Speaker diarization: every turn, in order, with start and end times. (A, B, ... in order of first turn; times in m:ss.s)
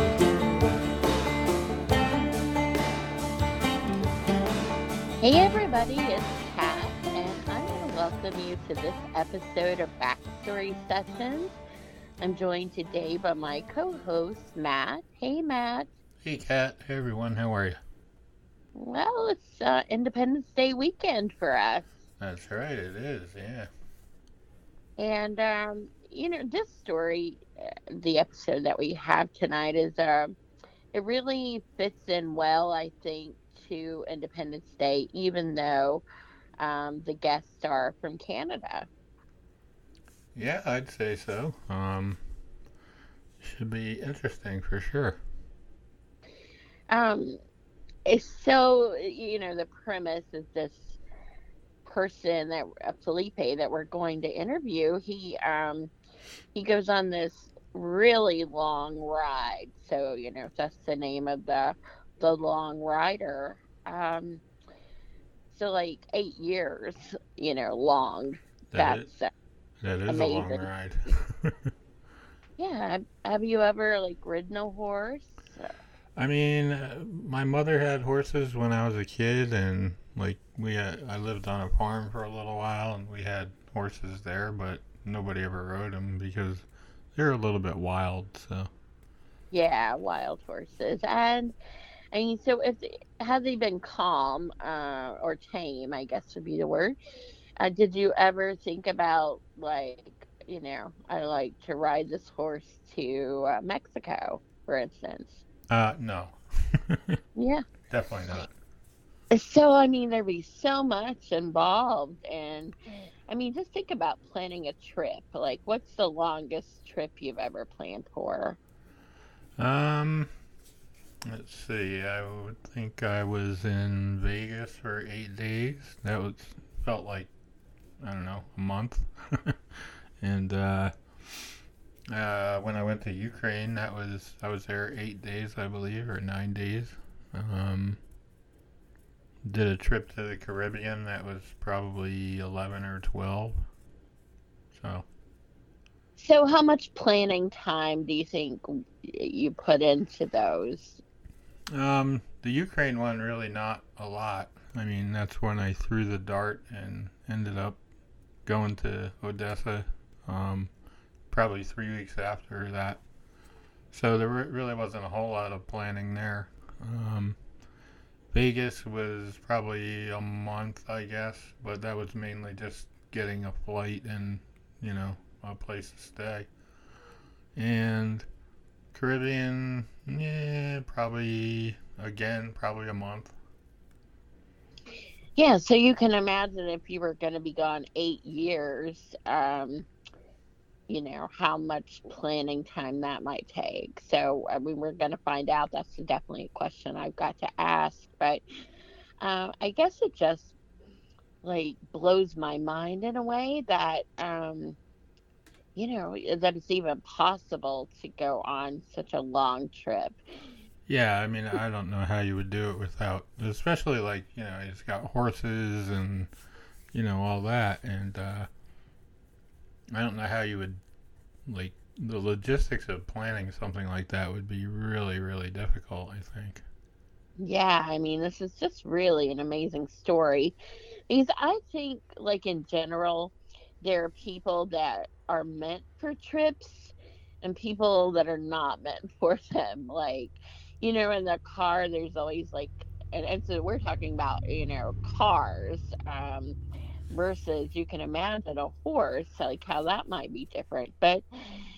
0:05.2-0:11.6 A
0:12.2-0:15.9 A
0:16.2-0:17.8 B
0:18.7-0:21.8 A
0:22.2-0:23.7 B
0:25.0-0:30.3 A
0:30.9-0:36.0 A
0:36.6-0:38.9 A
0:40.3-0:42.2 B
0:43.4-0:45.2 B
0:46.9-0:47.4 A
0:48.0-0:51.0 A
0:51.8-0:55.9 A
0:56.5-1:04.4 A
1:05.5-1:09.3 A
1:08.7-1:09.0 B
1:09.8-1:11.6 B
1:10.1-1:10.7 A
1:12.6-1:15.7 A
1:16.2-1:28.7 B
1:29.5-1:31.5 A
1:32.1-1:37.0 A
1:37.6-1:45.4 A
1:45.7-1:47.2 B
1:47.4-1:47.6 A
1:47.9-1:48.5 B
1:49.3-1:52.7 A
1:53.3-1:58.6 A
1:59.6-2:00.3 B
2:01.2-2:07.3 B
2:08.0-2:11.5 B
2:12.1-2:18.0 B
2:19.4-2:23.6 B
2:24.7-2:25.0 B
2:26.2-2:31.0 A
2:31.7-2:37.8 B
2:38.4-2:40.7 B
2:41.3-2:43.0 B
2:43.9-2:47.4 B
2:48.3-2:56.5 B
2:57.5-2:58.2 B
2:58.9-3:03.3 B
3:05.4-3:09.9 A
3:10.9-3:18.4 A
3:19.2-3:20.5 A
3:21.4-3:24.8 A
3:25.7-3:30.2 A
3:30.9-3:36.3 B
3:36.9-3:38.5 B
3:39.9-3:40.8 B
3:41.5-3:46.6 B
3:47.4-3:50.5 A
3:51.1-4:06.6 A
4:07.1-4:11.2 A